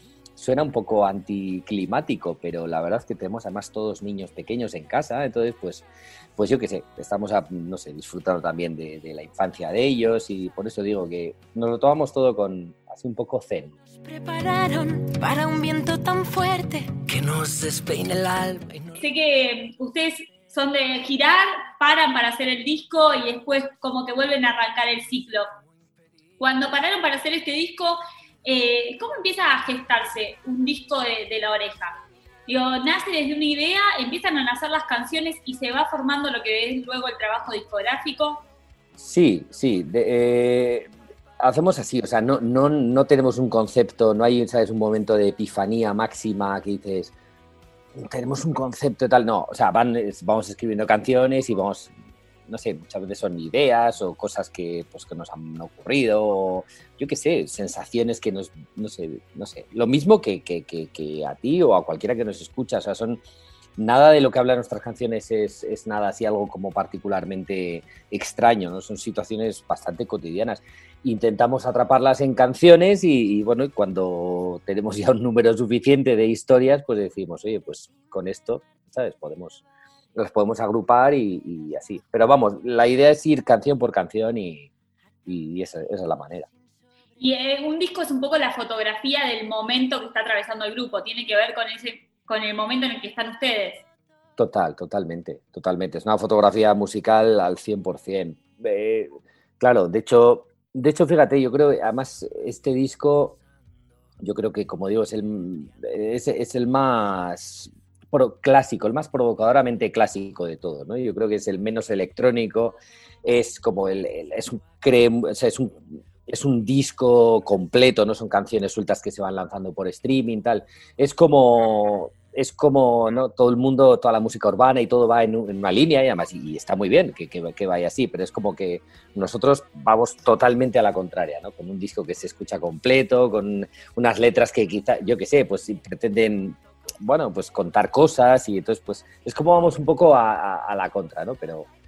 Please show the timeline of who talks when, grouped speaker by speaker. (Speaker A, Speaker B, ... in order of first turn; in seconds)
Speaker A: 0.4-13.8, 39.0-47.1, 48.0-51.9, 52.5-63.2, 63.8-79.6, 80.2-84.7, 85.2-86.5, 94.4-103.4, 104.2-141.7
Speaker B: 14.0-19.0
Speaker C: 19.0-25.5, 26.4-38.4, 87.2-93.8